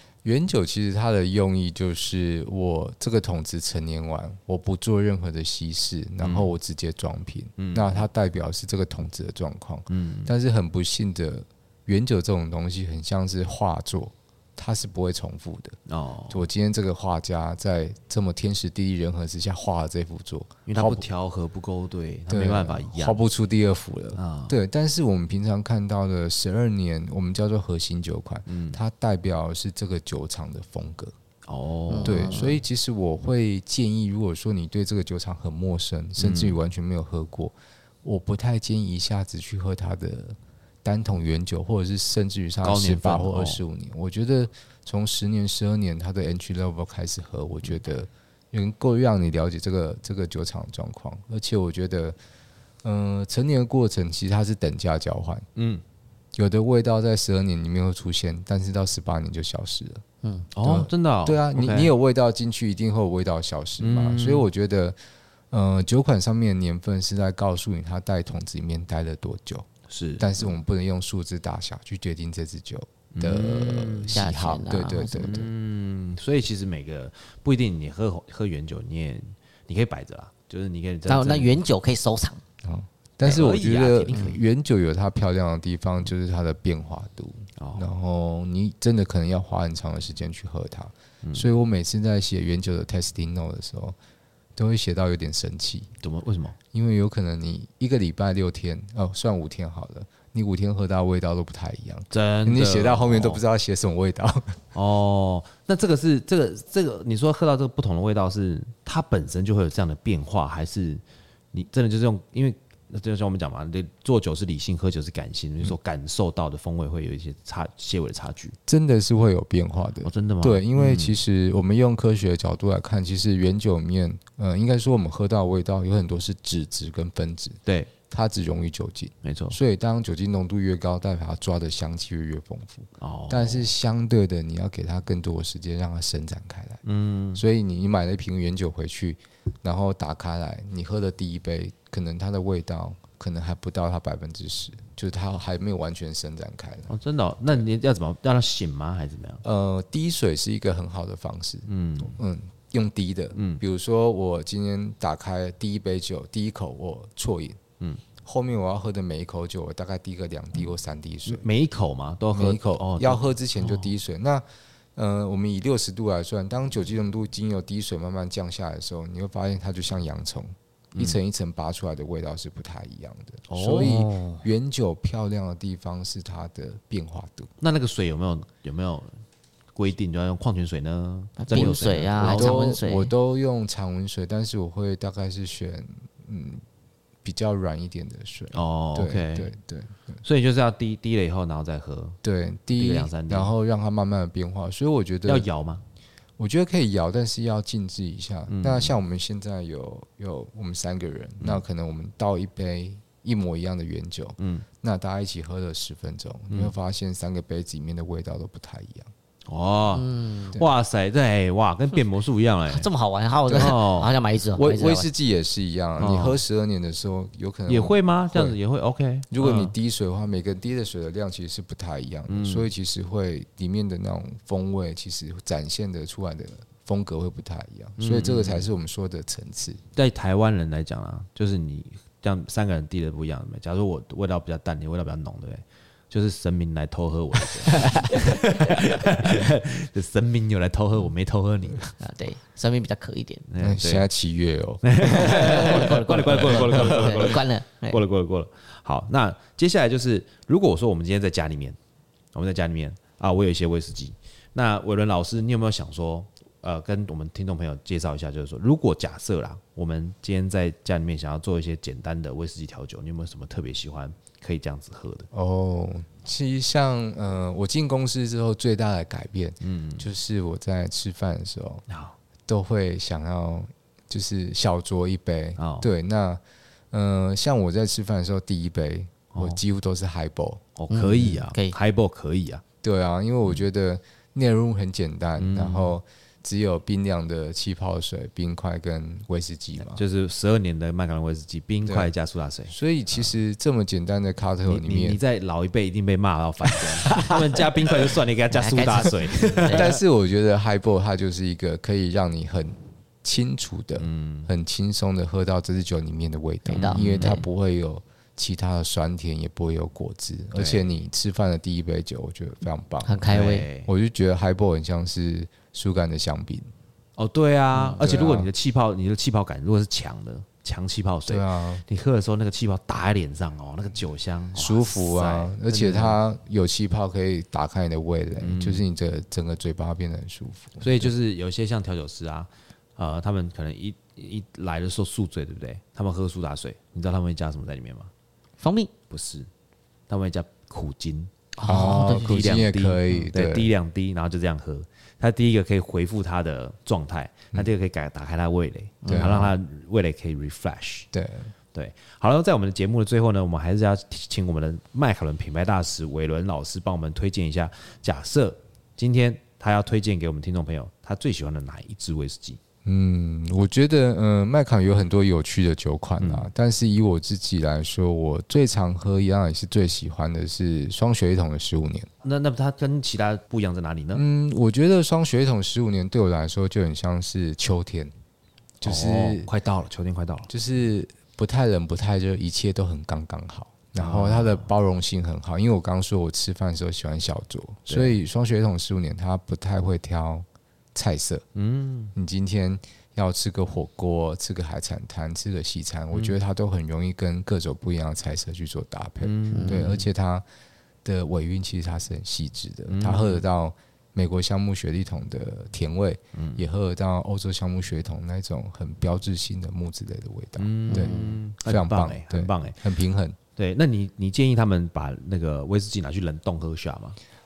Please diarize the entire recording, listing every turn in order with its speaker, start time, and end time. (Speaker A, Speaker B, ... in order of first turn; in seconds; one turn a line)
Speaker A: 0.2-15.8
Speaker B: 6.2-6.5
Speaker B: 7.6-8.1
Speaker B: 9.9-10.3
Speaker B: 15.9-16.5
Speaker A: 16.3-21.1
Speaker B: 20.7-23.2
Speaker A: 22.3-31.1
Speaker B: 24.2-24.6
Speaker B: 28.5-28.8
Speaker B: 31.5-32.5
Speaker C: 31.9-32.6
Speaker A: 32.0-52.2
Speaker B: 36.2-36.6
Speaker B: 42.6-43.6
Speaker A: 52.8-55.5
Speaker B: 55.6-55.8
Speaker A: 56.4-60.0
Speaker B: 60.5-61.9
Speaker A: 60.6-65.0
Speaker B: 63.8-64.5
Speaker A: 65.5-75.5
Speaker B: 69.9-70.3
Speaker B: 73.2-74.2
Speaker C: 74.1-75.4
Speaker B: 75.1-81.6
Speaker C: 81.1-82.4
Speaker A: 82.6-94.0
Speaker B: 83.2-84.5
Speaker B: 87.6-87.9
Speaker A: 94.6-95.9
Speaker B: 96.0-96.6
Speaker A: 96.7-104.6
Speaker B: 102.1-103.4
Speaker B: 104.7-118.6
Speaker A: 118.7-136.8
Speaker B: 120.0-121.2
Speaker B: 127.7-127.9
Speaker B: 129.2-129.6
Speaker B: 133.0-133.7
Speaker B: 136.8-137.4
Speaker A: 137.3-146.9
Speaker B: 146.9-149.4
Speaker A: 149.4-157.6
Speaker B: 151.7-152.2
Speaker B: 153.4-153.6
Speaker A: 158.2-161.5
Speaker B: 161.3-163.9
Speaker A: 162.3-164.4
Speaker A: 165.0-177.5
Speaker B: 173.5-174.5
Speaker B: 177.6-179.1
Speaker B: 179.8-182.8
Speaker C: 181.4-183.1
Speaker A: 181.5-186.6
Speaker A: 187.2-190.2
Speaker B: 188.5-189.5
Speaker B: 190.2-192.2
Speaker A: 192.2-195.5
Speaker B: 192.7-193.5
Speaker B: 195.2-195.8
Speaker A: 196.4-209.1
Speaker B: 198.5-199.0
Speaker B: 204.4-204.7
Speaker B: 206.5-206.8
Speaker B: 209.5-212.9
Speaker C: 209.9-210.6
Speaker C: 212.7-215.1
Speaker A: 213.5-213.8
Speaker B: 213.6-214.1
Speaker A: 214.5-218.6
Speaker B: 216.0-216.4
Speaker B: 217.7-219.7
Speaker A: 219.3-229.8
Speaker B: 222.3-222.7
Speaker B: 228.0-228.7
Speaker B: 229.9-241.9
Speaker C: 237.7-238.2
Speaker C: 242.0-243.4
Speaker B: 243.5-244.1
Speaker A: 243.6-245.9
Speaker B: 244.8-251.8
Speaker C: 245.0-248.0
Speaker A: 246.7-247.2
Speaker B: 252.3-265.3
Speaker A: 265.3-271.8
Speaker B: 269.6-270.1
Speaker B: 271.9-272.1
Speaker A: 272.5-276.4
Speaker B: 275.6-275.9
Speaker A: 276.9-280.6
Speaker B: 279.3-279.6
Speaker B: 280.8-282.6
Speaker C: 280.9-281.8
Speaker A: 282.8-290.0
Speaker B: 285.4-286.0
Speaker B: 289.9-293.4
Speaker A: 291.9-292.1
Speaker A: 292.7-295.2
Speaker B: 294.6-300.0
Speaker C: 298.6-299.9
Speaker A: 299.7-316.7
Speaker B: 304.0-304.5
Speaker C: 306.7-307.4
Speaker B: 306.7-307.3
Speaker B: 310.5-310.8
Speaker C: 313.1-313.7
Speaker B: 313.3-313.9
Speaker B: 317.2-326.2
Speaker A: 317.9-318.5
Speaker A: 321.3-321.8
Speaker A: 324.6-331.1
Speaker B: 328.4-328.9
Speaker B: 330.8-338.1
Speaker C: 338.6-338.9
Speaker B: 339.1-339.5
Speaker B: 340.1-351.1
Speaker C: 341.6-343.3
Speaker A: 341.6-343.7
Speaker C: 349.0-349.5
Speaker A: 349.1-349.5
Speaker A: 351.1-351.5
Speaker B: 351.7-362.6
Speaker A: 362.9-372.1
Speaker B: 366.2-366.5
Speaker B: 372.2-374.2
Speaker A: 374.1-378.1
Speaker A: 378.8-379.5
Speaker B: 378.8-380.5
Speaker A: 380.5-391.4
Speaker B: 384.0-384.7
Speaker B: 387.9-388.2
Speaker B: 391.6-392.1
Speaker A: 392.1-400.4
Speaker B: 399.2-400.1
Speaker C: 399.5-399.9
Speaker A: 401.1-413.4
Speaker B: 402.9-403.4
Speaker B: 406.4-406.6
Speaker B: 410.6-412.8
Speaker C: 410.9-411.4
Speaker B: 413.6-417.2